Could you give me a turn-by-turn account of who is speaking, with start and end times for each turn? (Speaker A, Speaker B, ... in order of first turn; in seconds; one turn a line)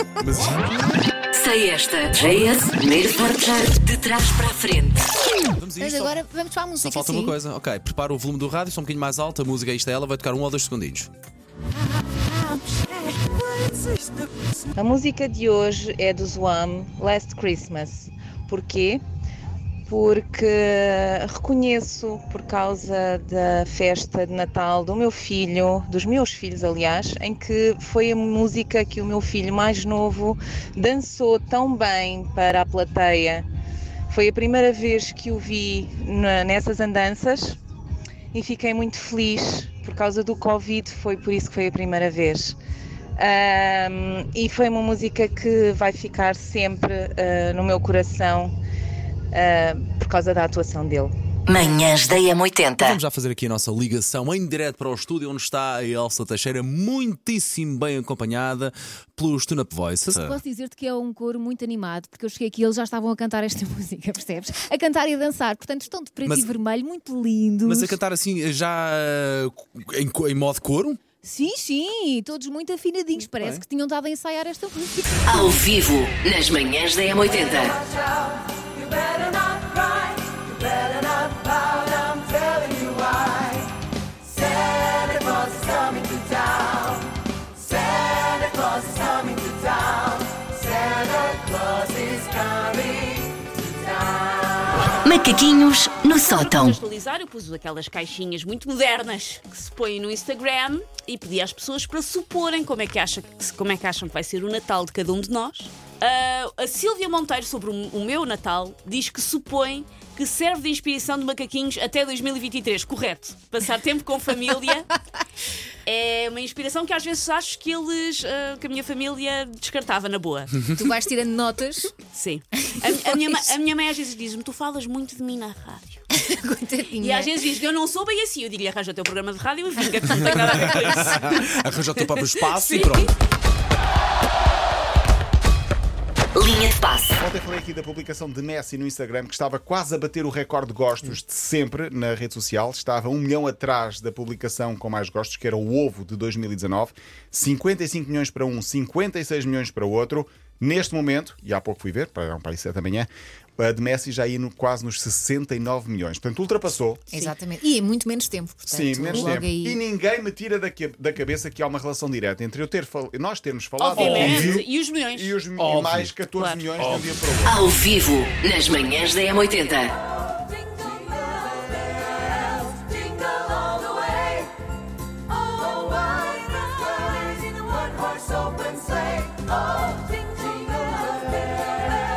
Speaker A: 0.2-0.8
Speaker B: 1.3-5.1
Speaker A: 2.2-2.5
Speaker A: 5.5-6.2
Speaker C: 5.8-7.4
Speaker A: 6.8-11.1
Speaker D: 14.8-19.0
Speaker D: 19.9-33.5
Speaker D: 34.1-37.6
Speaker D: 38.3-42.5
Speaker D: 43.2-48.5
Speaker D: 49.3-51.1
Speaker B: 51.5-52.9
Speaker A: 52.7-60.4
Speaker C: 60.1-68.0
Speaker A: 66.2-66.5
Speaker A: 67.7-71.0
Speaker C: 71.2-75.4
Speaker A: 73.2-73.6
Speaker B: 75.3-77.7
Speaker B: 95.1-96.7
Speaker E: 96.2-114.9
Speaker E: 115.9-120.5
Speaker C: 120.7-121.9
Speaker E: 122.1-126.0
Speaker C: 126.1-127.3
Speaker E: 127.0-133.1
Speaker A: 130.2-133.1
Speaker B: 136.4-137.2
Speaker F: 137.2-157.0
Speaker C: 157.1-159.8
Speaker F: 158.7-167.7
Speaker E: 163.8-165.4
Speaker A: 164.0-164.6
Speaker A: 165.6-166.2
Speaker E: 166.3-166.7
Speaker A: 166.8-167.1
Speaker B: 167.5-169.9